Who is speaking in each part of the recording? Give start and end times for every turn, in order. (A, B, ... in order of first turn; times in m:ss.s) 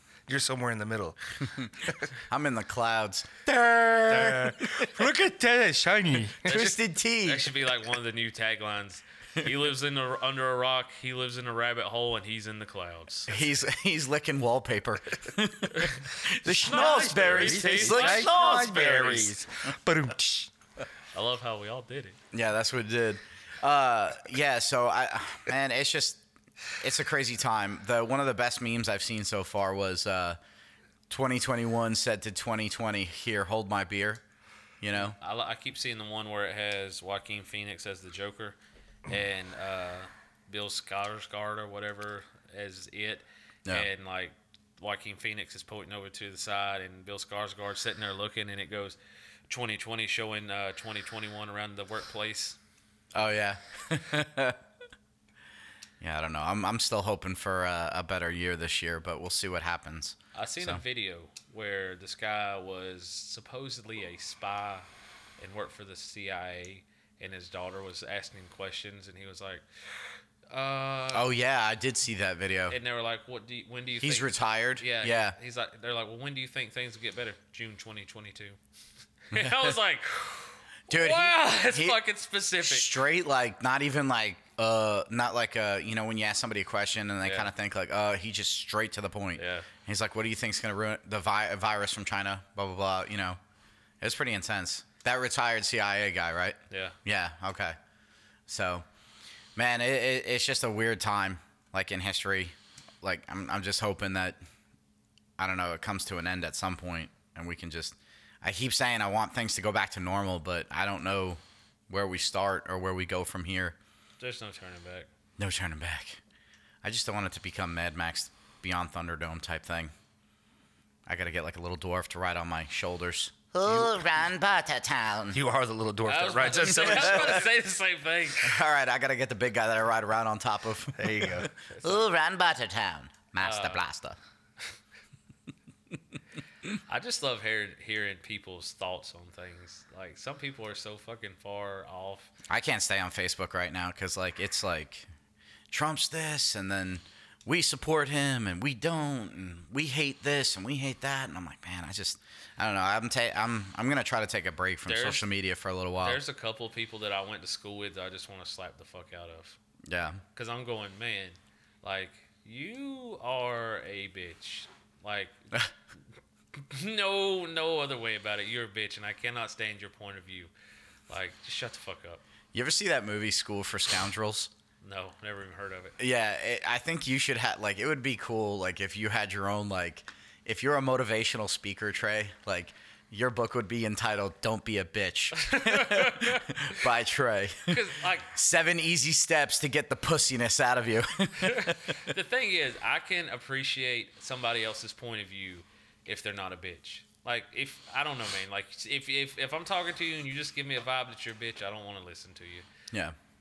0:00.3-0:01.2 A
0:01.5-0:05.0 B
0:04.1-0:06.6 A
0:06.4-0:07.5 B
0:06.4-0:13.3 C
0:13.3-0:19.2 B
0:16.5-0:20.5 A
0:16.5-0:19.4 C
0:21.1-0:22.2 C
0:22.3-0:26.2 B
0:26.8-0:30.4 B
0:31.1-0:34.2 B
0:34.8-0:35.2 B
0:34.9-0:38.6 C
0:39.1-0:49.0 C
0:49.5-0:52.6 C
0:53.2-0:54.6 B
0:56.0-1:00.8 B
1:00.4-1:04.9 C
1:05.4-1:09.6 C
1:10.5-1:11.3 C
1:11.1-1:12.8 B
1:12.7-1:18.6 C
1:14.0-1:15.4 B
1:19.3-1:23.0 C
1:19.3-1:19.7 B
1:20.9-1:22.0 B
1:22.6-1:33.4 B
1:27.2-1:27.5 C
1:29.4-1:29.7 C
1:34.0-1:37.8 B
1:36.7-1:37.0 C
1:38.5-1:38.8 B
1:39.6-1:44.4 B
1:45.4-1:53.8 B
1:54.2-1:55.1 C
1:55.4-1:56.2 B
1:56.8-1:59.9 B
2:01.1-2:05.4 B
2:03.7-2:04.0 A
2:05.3-2:07.5 A
2:06.0-2:08.6 C
2:06.7-2:07.4 B
2:08.4-2:14.2 B
2:11.0-2:11.5 A
2:13.4-2:13.8 C
2:16.9-2:22.3 C
2:22.5-2:25.1 B
2:25.7-2:36.2 B
2:34.9-2:35.3 C
2:36.0-2:39.6 C
2:39.9-2:40.2 B
2:40.4-2:45.5 C
2:46.5-2:50.5 C
2:51.1-2:52.2 C
2:52.5-2:54.5 B
2:54.8-2:56.0 C
2:56.0-3:12.1 B
3:05.4-3:06.5 C
3:07.7-3:08.3 C
3:11.4-3:22.7 C
3:22.9-3:23.2 B